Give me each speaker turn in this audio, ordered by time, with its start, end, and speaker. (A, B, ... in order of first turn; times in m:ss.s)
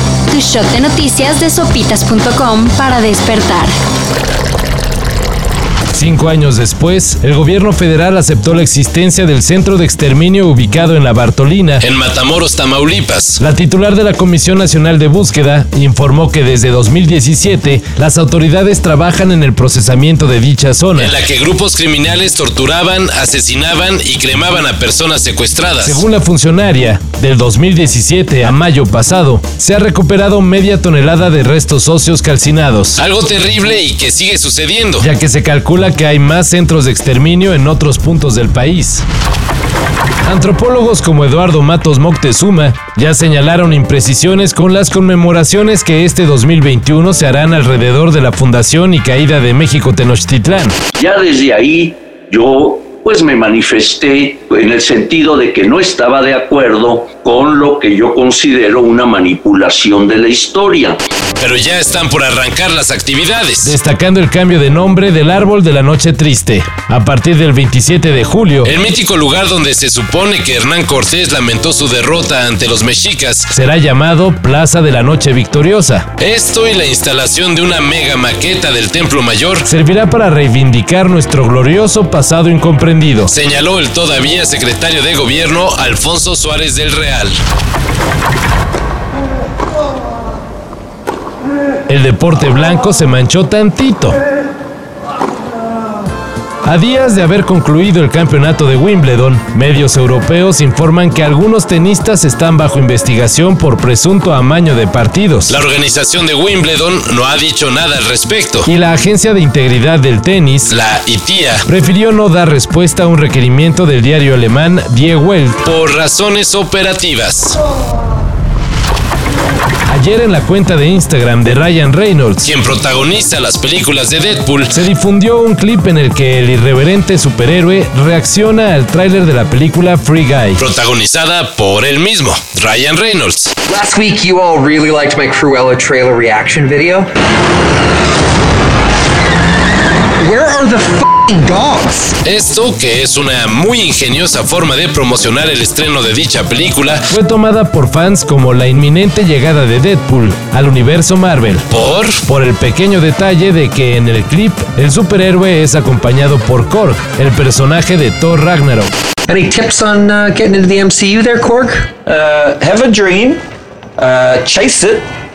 0:00.3-0:03.7 A
0:05.9-0:11.8 B
0:11.8-0:13.4 C
0:13.4-0:21.1 B
0:21.0-0:26.0 C
0:25.8-0:33.0 B
0:33.0-0:35.1 C
0:35.0-0:39.0 B
0:40.2-0:50.8 B
0:51.0-1:01.0 D
1:01.4-1:03.8 C
1:03.6-1:08.7 B
1:08.6-1:13.5 C
1:13.5-1:16.1 B
1:16.2-1:19.7 C
1:19.6-1:23.3 B
1:23.3-1:27.4 C
1:31.9-1:34.2 B
1:36.6-1:45.6 B
1:45.5-1:48.7 C
1:48.6-1:50.7 B
1:50.7-1:51.6 C
1:51.6-1:55.6 B
1:55.6-1:57.6 C
1:59.9-2:02.5 B
2:02.4-2:04.8 C
2:04.7-2:10.6 B
2:10.6-2:13.5 C
2:13.6-2:17.1 E
2:20.2-2:22.2 E
2:22.2-2:27.1 C
2:27.1-2:31.7 B
2:31.7-2:32.2 C
2:32.2-2:38.9 B
2:39.3-2:41.9 E
2:42.0-2:43.4 F
2:44.0-2:45.1 F